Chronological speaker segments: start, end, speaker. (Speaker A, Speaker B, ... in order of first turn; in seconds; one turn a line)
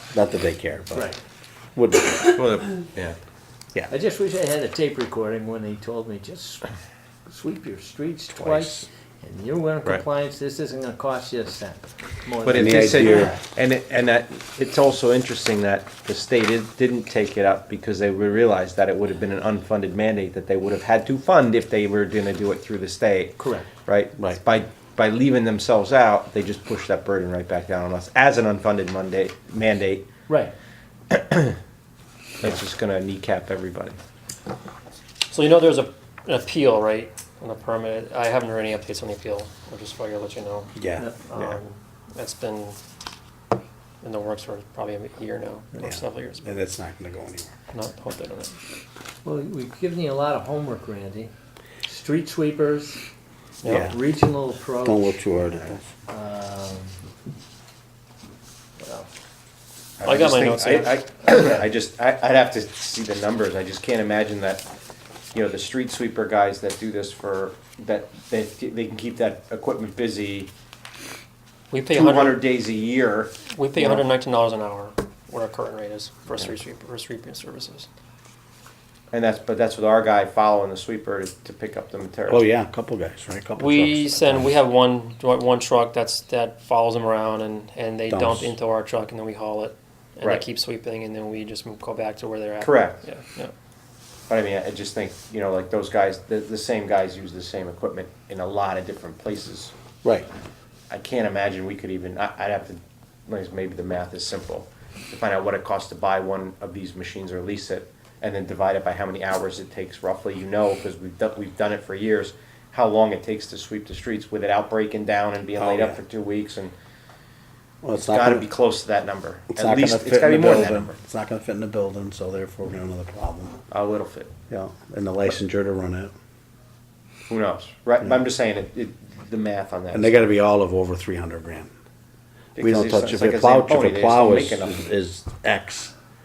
Speaker A: 0.1-1.1
Speaker A: 1.8-2.5
Speaker B: 2.3-3.2
Speaker C: 3.9-6.7
Speaker C: 7.3-13.3
Speaker A: 8.4-8.9
Speaker B: 12.4-30.1
Speaker A: 12.5-13.4
Speaker C: 23.4-23.7
Speaker C: 30.3-30.5
Speaker B: 31.1-31.6
Speaker B: 32.4-34.0
Speaker D: 35.3-42.8
Speaker A: 40.8-41.1
Speaker D: 44.0-46.5
Speaker A: 45.8-47.5
Speaker D: 47.7-48.6
Speaker C: 49.2-51.3
Speaker C: 51.8-53.0
Speaker D: 53.6-53.9
Speaker A: 53.6-54.0
Speaker C: 53.8-55.3
Speaker A: 54.8-55.9
Speaker C: 56.0-57.0
Speaker C: 58.8-59.1
Speaker D: 60.0-61.0
Speaker B: 60.0-64.7
Speaker B: 65.3-70.5
Speaker D: 71.7-72.4
Speaker B: 71.9-74.0
Speaker D: 73.5-77.9
Speaker B: 79.1-82.5
Speaker A: 82.3-84.5
Speaker D: 83.6-93.5
Speaker A: 88.1-88.5
Speaker B: 92.6-93.0
Speaker B: 94.3-99.7
Speaker B: 100.9-116.7
Speaker A: 115.6-116.0
Speaker A: 117.8-118.5
Speaker B: 118.0-121.0
Speaker A: 119.5-123.6
Speaker B: 123.7-124.3
Speaker A: 124.5-126.1
Speaker B: 127.3-130.3
Speaker A: 129.9-131.7
Speaker B: 132.6-134.8
Speaker A: 132.6-135.9